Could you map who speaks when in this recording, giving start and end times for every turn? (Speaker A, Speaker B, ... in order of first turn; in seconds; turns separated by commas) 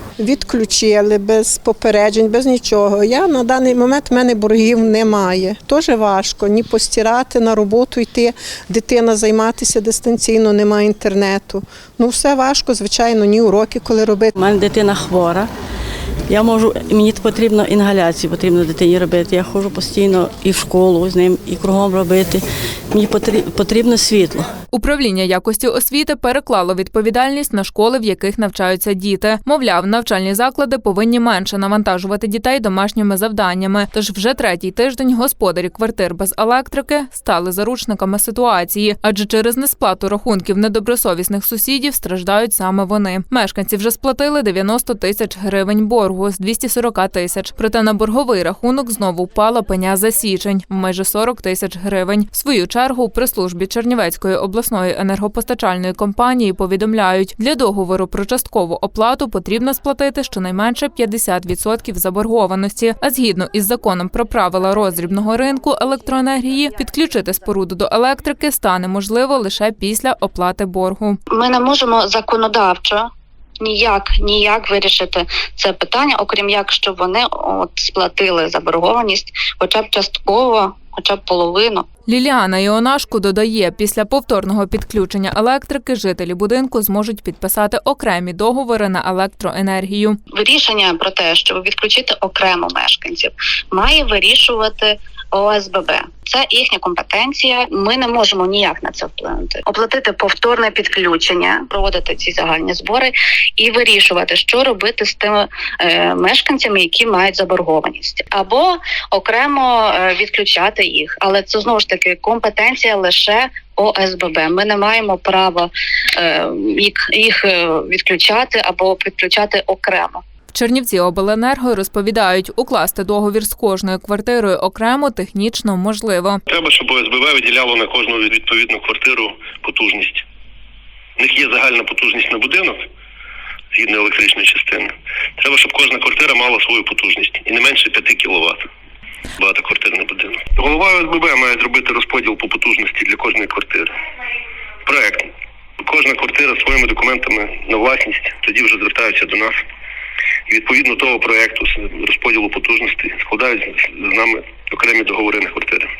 Speaker A: 0.2-14.3, Speaker B: 14.3-15.5, Speaker B: 16.3-24.5, Speaker C: 24.7-71.2, Speaker D: 71.3-73.1, Speaker D: 73.6-81.8, Speaker C: 82.1-90.2, Speaker D: 90.3-120.2, Speaker C: 120.5-126.4, Speaker E: 126.5-130.2, Speaker E: 131.2-132.9, Speaker E: 133.7-138.6, Speaker E: 139.4-143.9, Speaker E: 144.8-145.2, Speaker E: 145.8-149.6, Speaker E: 150.5-155.9